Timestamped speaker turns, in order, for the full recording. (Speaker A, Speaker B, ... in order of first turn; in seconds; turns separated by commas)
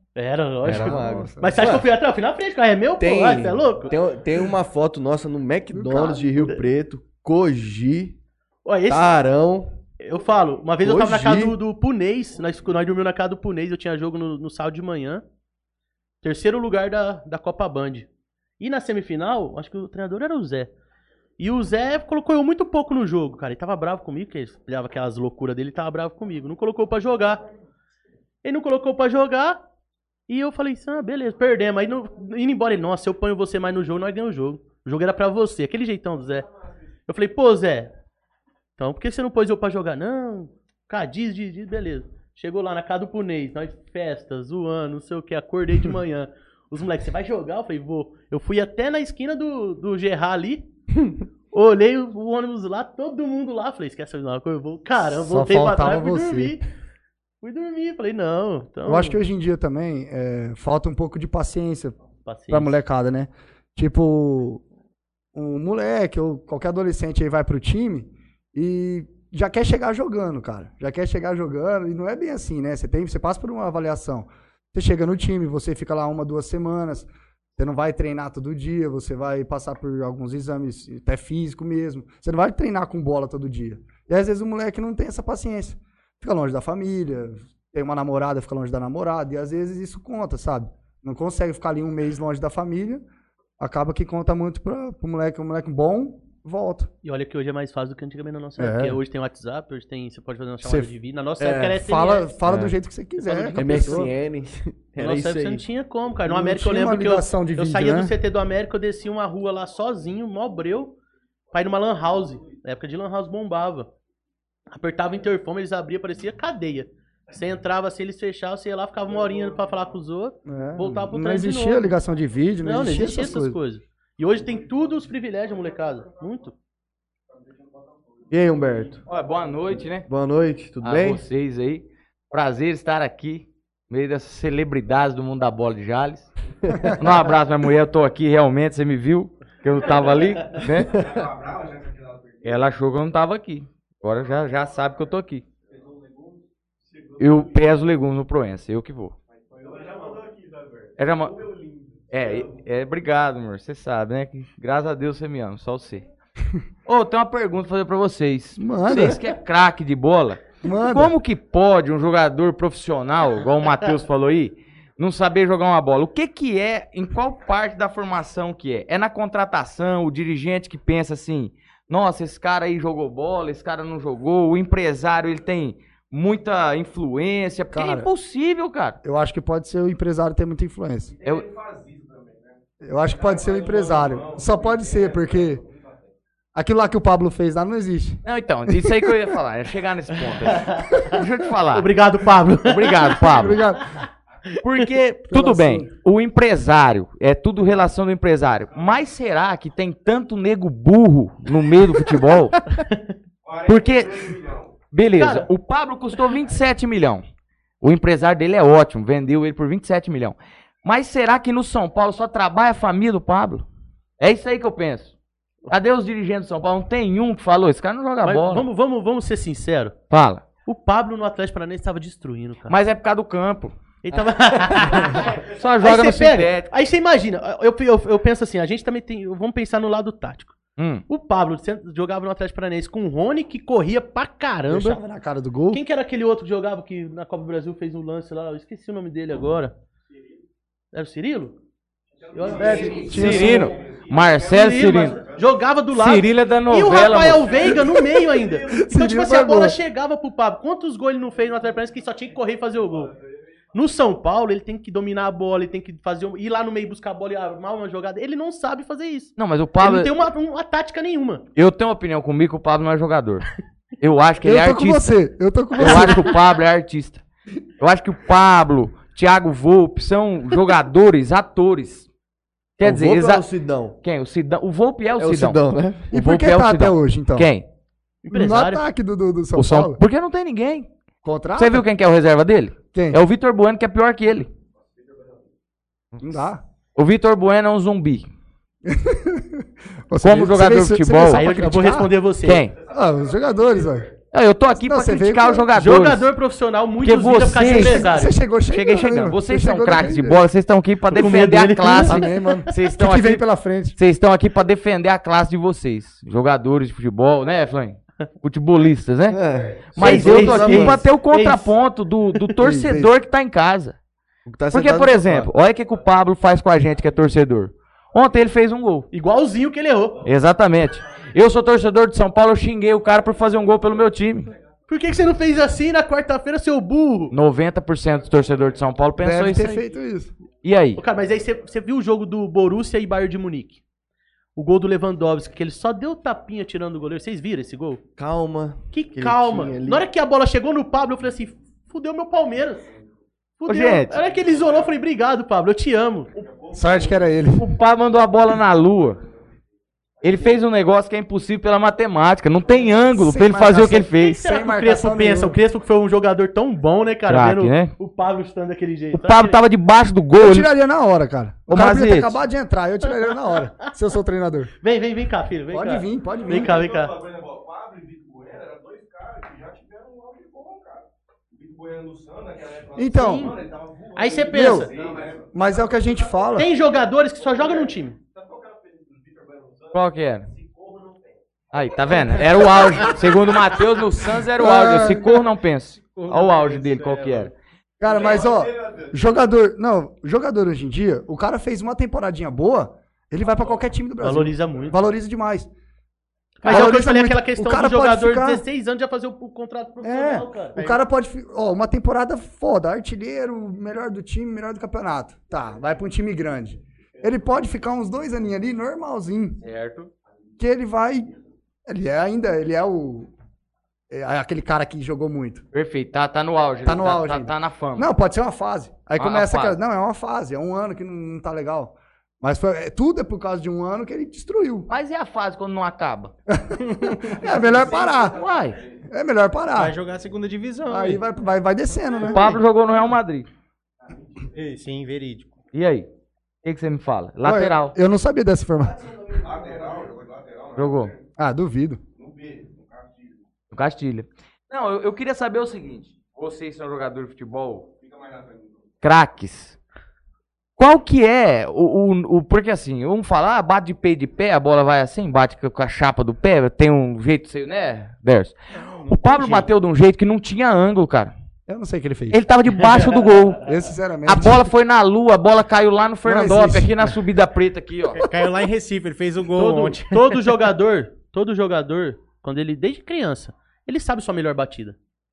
Speaker A: 0.1-3.9, Speaker B: 0.6-1.9, Speaker C: 0.7-1.8, Speaker B: 3.0-8.2, Speaker C: 5.7-6.3, Speaker A: 8.6-9.1, Speaker B: 8.9-9.7, Speaker A: 10.0-15.2, Speaker B: 10.8-11.6, Speaker A: 16.2-18.1, Speaker A: 18.6-20.7, Speaker A: 21.4-27.4, Speaker A: 28.4-29.6, Speaker A: 30.3-36.5, Speaker A: 37.1-37.9, Speaker A: 38.8-50.6, Speaker A: 51.5-56.6, Speaker C: 55.1-56.5, Speaker A: 57.4-59.2, Speaker C: 58.8-62.0, Speaker A: 62.2-62.7, Speaker C: 62.5-64.6, Speaker C: 65.3-93.0, Speaker C: 93.6-96.9, Speaker A: 97.0-102.4, Speaker C: 98.6-99.0, Speaker C: 100.6-100.9, Speaker B: 101.4-101.8, Speaker C: 101.8-104.1, Speaker B: 102.5-102.7, Speaker B: 103.3-105.6, Speaker A: 103.5-103.8, Speaker A: 105.0-111.0, Speaker C: 106.2-108.1, Speaker A: 111.5-113.9, Speaker A: 114.7-122.0, Speaker C: 120.5-123.6, Speaker A: 122.6-126.5, Speaker B: 128.3-129.1, Speaker D: 129.1-130.1, Speaker B: 130.1-131.2, Speaker D: 130.8-136.3, Speaker B: 136.7-136.9, Speaker D: 136.8-141.1, Speaker E: 141.0-142.4, Speaker D: 142.4-145.4, Speaker D: 147.2-149.2, Speaker E: 149.6-150.0, Speaker D: 151.0-151.4, Speaker D: 152.1-156.0, Speaker D: 156.8-179.0, Speaker C: 158.6-159.2, Speaker C: 160.6-161.1, Speaker C: 177.7-178.1, Speaker C: 179.0-181.2, Speaker E: 181.2-182.5, Speaker C: 182.8-185.6, Speaker E: 183.3-185.3, Speaker C: 186.5-189.1, Speaker D: 188.2-191.9, Speaker A: 190.2-191.1, Speaker A: 191.7-194.0, Speaker D: 192.6-193.6, Speaker C: 193.2-193.9, Speaker D: 194.6-202.6, Speaker C: 195.3-195.9, Speaker A: 202.7-203.0, Speaker E: 203.4-204.7, Speaker D: 203.7-204.4, Speaker D: 204.9-207.2, Speaker A: 205.2-205.5, Speaker D: 207.8-213.6, Speaker D: 214.2-215.1, Speaker D: 215.7-218.7, Speaker A: 218.2-220.0, Speaker D: 220.1-220.4, Speaker A: 220.7-222.8, Speaker D: 222.7-223.7, Speaker A: 224.0-235.0, Speaker B: 224.1-225.1, Speaker D: 225.1-226.7, Speaker D: 230.8-231.0, Speaker C: 234.7-235.8, Speaker A: 235.7-239.7, Speaker A: 240.9-241.6, Speaker A: 242.3-243.8, Speaker D: 242.6-245.2, Speaker C: 242.7-243.7, Speaker A: 244.3-253.1, Speaker D: 245.9-247.8, Speaker C: 247.6-249.8, Speaker A: 253.7-261.4, Speaker D: 259.4-260.1, Speaker D: 261.6-263.4, Speaker D: 264.0-265.1, Speaker C: 264.4-266.3, Speaker D: 265.8-267.2, Speaker A: 265.8-266.2, Speaker D: 267.8-272.1, Speaker D: 272.8-273.5, Speaker B: 272.8-274.0, Speaker D: 274.0-275.6, Speaker B: 275.2-276.1, Speaker C: 276.1-277.5, Speaker D: 276.1-277.6, Speaker A: 278.2-278.9, Speaker C: 278.3-280.0, Speaker D: 279.6-280.9, Speaker C: 281.2-281.9, Speaker D: 281.6-284.5, Speaker C: 282.9-283.2, Speaker C: 286.2-286.6, Speaker D: 286.9-288.3, Speaker C: 288.8-292.1, Speaker D: 290.2-291.5, Speaker A: 291.3-292.7, Speaker D: 292.4-292.7, Speaker C: 292.8-294.1, Speaker D: 294.3-296.3, Speaker C: 294.7-295.7, Speaker A: 295.7-298.3, Speaker D: 297.0-298.1, Speaker C: 297.6-300.5, Speaker D: 298.6-309.4, Speaker A: 301.1-302.7, Speaker C: 302.0-303.9, Speaker B: 309.3-311.0, Speaker D: 309.9-313.9, Speaker A: 310.0-311.8, Speaker C: 310.1-310.9, Speaker C: 312.6-313.1, Speaker B: 314.4-315.5, Speaker D: 314.7-319.1, Speaker A: 319.1-320.2, Speaker D: 320.2-324.5, Speaker A: 324.9-327.3, Speaker D: 327.3-329.8, Speaker C: 329.2-330.3, Speaker D: 330.6-331.0, Speaker A: 331.0-333.8, Speaker A: 334.6-338.0, Speaker B: 338.2-340.1, Speaker A: 338.9-342.9, Speaker A: 343.6-346.3, Speaker D: 343.7-344.2, Speaker C: 346.7-347.7, Speaker D: 347.6-349.2, Speaker D: 350.2-354.4, Speaker C: 353.1-355.6, Speaker A: 353.9-359.6, Speaker D: 357.2-357.9, Speaker D: 359.1-360.7, Speaker C: 360.4-364.7, Speaker D: 361.7-362.4, Speaker A: 364.8-367.2, Speaker C: 365.7-366.8, Speaker E: 367.0-370.9, Speaker E: 371.5-375.4, Speaker C: 372.9-373.6, Speaker A: 373.1-373.6, Speaker A: 374.1-375.1, Speaker C: 374.5-374.9, Speaker C: 375.4-376.7, Speaker A: 376.5-378.2, Speaker E: 379.4-379.8, Speaker D: 379.9-380.5, Speaker D: 381.7-387.5, Speaker C: 384.6-385.4, Speaker F: 386.0-387.5, Speaker C: 388.0-395.7, Speaker A: 394.2-395.0, Speaker A: 396.6-400.8, Speaker C: 396.6-398.6, Speaker C: 400.0-409.6, Speaker D: 409.6-410.1, Speaker C: 410.6-411.3, Speaker C: 411.9-413.3, Speaker C: 414.1-415.6, Speaker D: 415.7-418.1, Speaker C: 416.8-424.9, Speaker D: 419.2-419.8, Speaker D: 424.9-426.3, Speaker C: 426.5-428.4, Speaker F: 427.0-428.0, Speaker D: 428.2-428.8, Speaker C: 429.1-429.9, Speaker F: 429.7-431.2, Speaker C: 430.9-432.6, Speaker D: 432.2-433.5, Speaker F: 434.5-435.6, Speaker D: 435.7-436.1, Speaker D: 436.6-437.9, Speaker C: 437.4-439.1, Speaker E: 439.4-441.0, Speaker D: 440.8-441.1, Speaker C: 441.4-442.0, Speaker E: 442.2-443.2, Speaker D: 443.7-447.9, Speaker E: 448.0-448.7, Speaker D: 449.0-449.8, Speaker D: 450.8-461.3, Speaker F: 458.8-459.7, Speaker C: 461.7-462.4, Speaker D: 462.3-463.7, Speaker C: 463.6-464.7, Speaker D: 464.2-468.3, Speaker C: 466.2-467.1, Speaker F: 468.1-470.2, Speaker A: 469.6-475.0